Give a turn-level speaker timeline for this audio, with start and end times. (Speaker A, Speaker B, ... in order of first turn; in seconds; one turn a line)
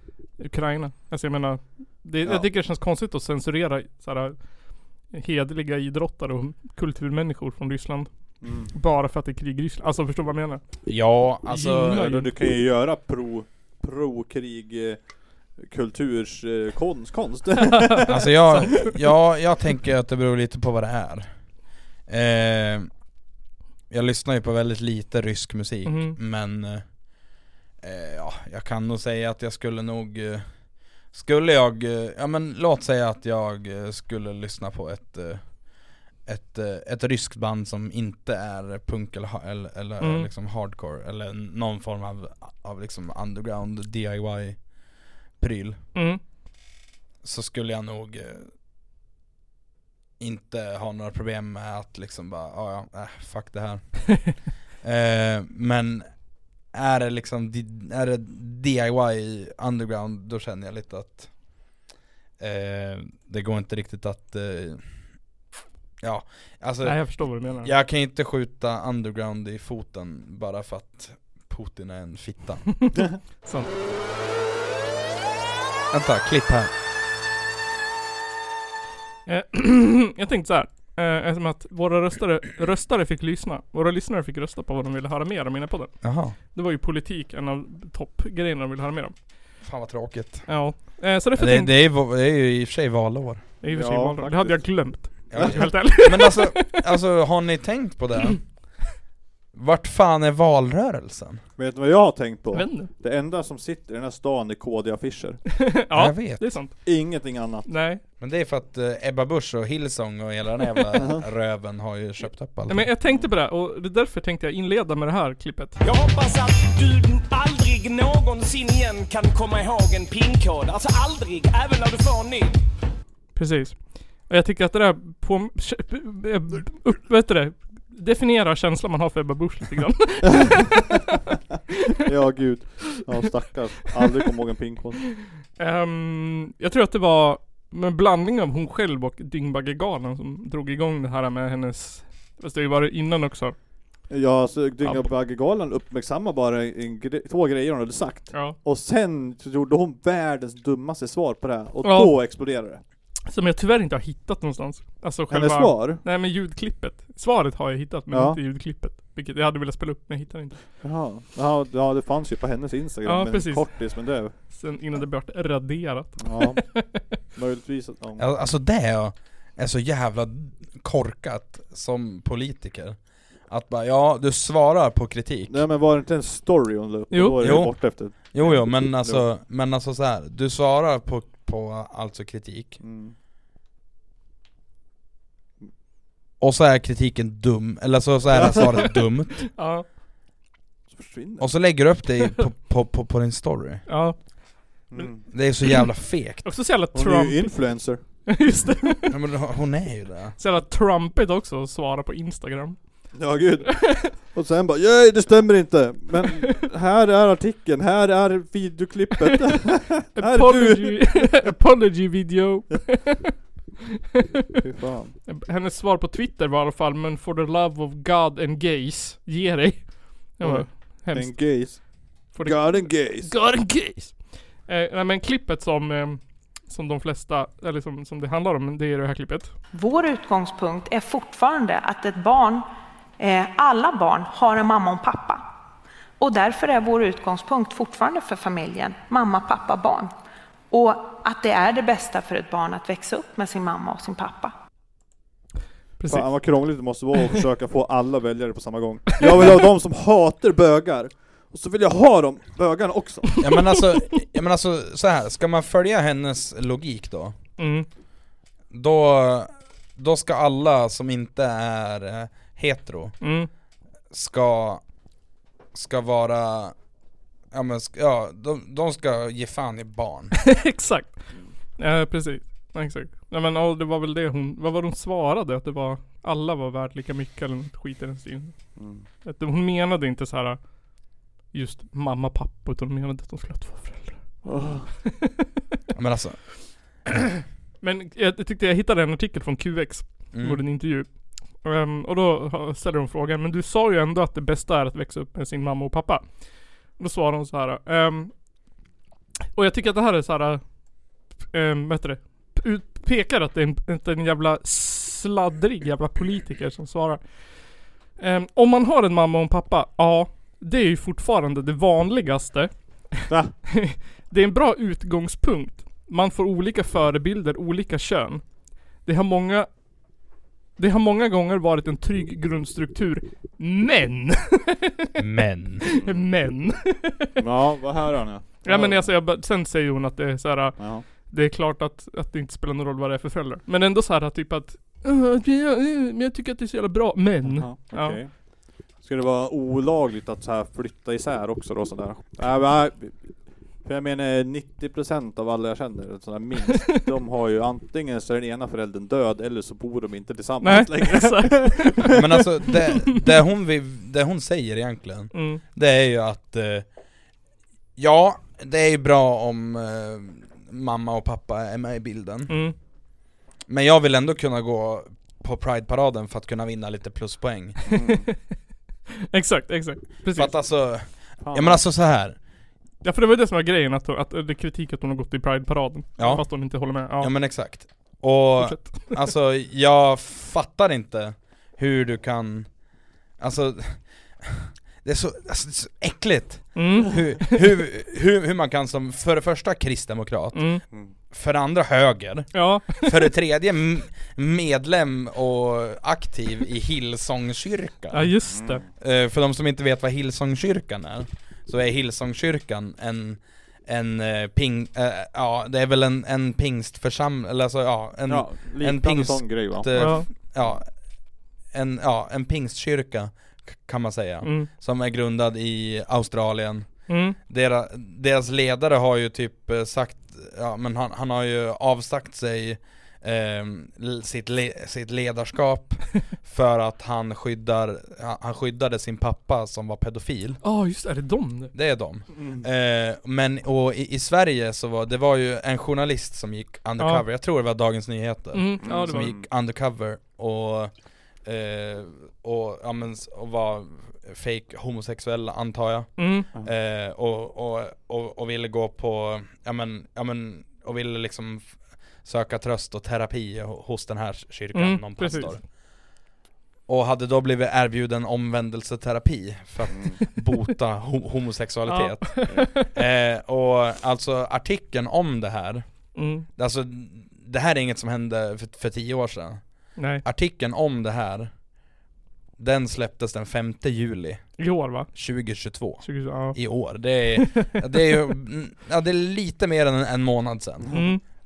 Speaker A: 0.4-4.5
Speaker A: 5.1-8.1
Speaker B: 8.4-8.7
Speaker A: 8.7-10.6
Speaker C: 10.9-12.1
Speaker A: 11.5-12.3
Speaker B: 11.9-15.0
Speaker B: 15.6-18.8
Speaker A: 17.9-18.9
Speaker C: 18.1-21.3
Speaker C: 22.1-22.9
Speaker C: 23.9-26.9
Speaker A: 25.9-26.2
Speaker C: 27.8-30.5
Speaker C: 31.1-35.6
Speaker C: 36.3-44.6
Speaker A: 40.0-40.3
Speaker C: 45.4-45.8
Speaker A: 46.0-46.2
Speaker C: 47.2-48.5
Speaker C: 50.2-56.1
Speaker C: 56.7-61.6
Speaker C: 62.4-64.9
Speaker C: 66.0-72.8
Speaker A: 66.8-67.7
Speaker A: 73.4-73.7
Speaker C: 75.9-76.7
Speaker A: 79.3-89.2
Speaker C: 86.0-86.4
Speaker C: 89.6-90.8
Speaker A: 90.5-91.7
Speaker C: 91.3-93.5
Speaker A: 93.6-96.8
Speaker B: 93.7-95.7
Speaker C: 95.3-98.5
Speaker C: 99.5-101.4
Speaker B: 101.6-105.4
Speaker A: 102.5-102.9
Speaker A: 105.5-107.0
Speaker C: 105.9-106.6
Speaker B: 106.8-107.7
Speaker A: 107.7-108.0
Speaker C: 108.2-112.9
Speaker B: 110.9-111.2
Speaker A: 112.7-115.8
Speaker D: 115.8-122.6
Speaker A: 123.3-131.0
Speaker B: 130.3-131.2
Speaker B: 132.0-135.1
Speaker A: 135.6-143.6
Speaker B: 144.1-152.8
Speaker A: 144.8-145.1
Speaker A: 148.3-148.6
Speaker A: 151.8-152.2
Speaker A: 153.3-160.6
Speaker B: 155.3-156.0
Speaker B: 158.1-158.4
Speaker B: 160.8-164.3
Speaker A: 163.1-167.0
Speaker B: 166.2-168.3
Speaker C: 168.2-175.7
Speaker B: 175.5-179.3
Speaker A: 177.1-177.8
Speaker C: 177.4-182.8
Speaker B: 182.8-183.2
Speaker C: 186.4-189.5
Speaker B: 188.3-188.7
Speaker A: 189.5-189.9
Speaker B: 190.9-191.5
Speaker C: 191.4-193.9
Speaker A: 193.9-194.2
Speaker A: 194.8-195.1
Speaker B: 194.9-195.2
Speaker C: 195.3-196.6
Speaker A: 196.4-199.2
Speaker B: 196.9-198.0
Speaker C: 199.1-200.4
Speaker A: 200.4-203.0
Speaker B: 203.1-211.3
Speaker A: 203.7-204.1
Speaker A: 210.2-213.3
Speaker A: 214.1-214.6
Speaker B: 214.6-215.2
Speaker A: 215.3-221.8
Speaker B: 220.4-223.3
Speaker A: 222.3-229.5
Speaker E: 229.7-232.7
Speaker E: 233.2-235.4
Speaker E: 236.2-240.1
Speaker E: 240.7-244.5
Speaker A: 246.0-246.3
Speaker B: 246.1-253.3
Speaker A: 249.2-249.5
Speaker C: 253.4-257.4
Speaker A: 257.6-257.9
Speaker C: 258.7-263.2
Speaker A: 263.2-263.5
Speaker C: 264.1-264.8
Speaker C: 265.7-266.8
Speaker C: 267.5-270.4
Speaker A: 270.3-271.2
Speaker A: 271.8-278.6
Speaker B: 278.8-279.1
Speaker A: 279.2-280.6
Speaker A: 281.5-284.2
Speaker B: 284.4-284.9
Speaker A: 285.1-285.4
Speaker C: 285.9-286.4
Speaker A: 287.1-298.3
Speaker C: 290.3-290.6
Speaker A: 299.5-300.6
Speaker A: 301.5-307.5
Speaker A: 308.2-318.4
Speaker B: 313.3-313.5
Speaker A: 319.0-319.7
Speaker A: 320.8-325.2
Speaker C: 325.2-325.8
Speaker A: 325.8-327.4
Speaker B: 326.0-326.2
Speaker B: 327.4-329.1
Speaker A: 328.6-338.2
Speaker B: 330.8-331.1
Speaker B: 337.4-338.3
Speaker B: 339.0-343.3
Speaker B: 343.8-352.2
Speaker A: 350.6-353.2
Speaker C: 352.1-356.9
Speaker A: 355.3-355.6
Speaker C: 358.0-362.6
Speaker A: 362.5-362.8
Speaker C: 363.7-367.8
Speaker B: 367.9-368.3
Speaker A: 367.9-368.4
Speaker A: 369.3-370.6
Speaker C: 370.3-372.4
Speaker B: 371.4-371.9
Speaker A: 373.0-377.3
Speaker C: 376.2-382.7
Speaker A: 378.6-379.2
Speaker C: 383.4-390.7
Speaker A: 386.8-387.6
Speaker A: 390.5-390.8
Speaker C: 391.3-398.3
Speaker A: 392.5-393.3
Speaker A: 398.1-398.9
Speaker B: 398.5-398.9
Speaker C: 399.0-410.9
Speaker B: 408.3-410.8
Speaker A: 409.9-410.3
Speaker C: 411.7-430.6
Speaker A: 414.4-414.7
Speaker A: 417.1-417.4
Speaker A: 430.6-431.7
Speaker C: 431.7-440.9
Speaker B: 432.3-432.7
Speaker A: 437.0-437.2
Speaker A: 438.5-439.4
Speaker B: 438.8-439.5
Speaker C: 441.4-455.6
Speaker A: 446.2-446.5
Speaker A: 454.7-455.6
Speaker C: 456.9-469.6
Speaker B: 459.9-460.2
Speaker A: 461.9-462.9
Speaker A: 466.1-466.5
Speaker A: 470.0-470.2
Speaker C: 470.2-471.5
Speaker C: 472.6-481.0
Speaker A: 474.6-475.1
Speaker A: 476.0-477.8
Speaker A: 480.9-481.2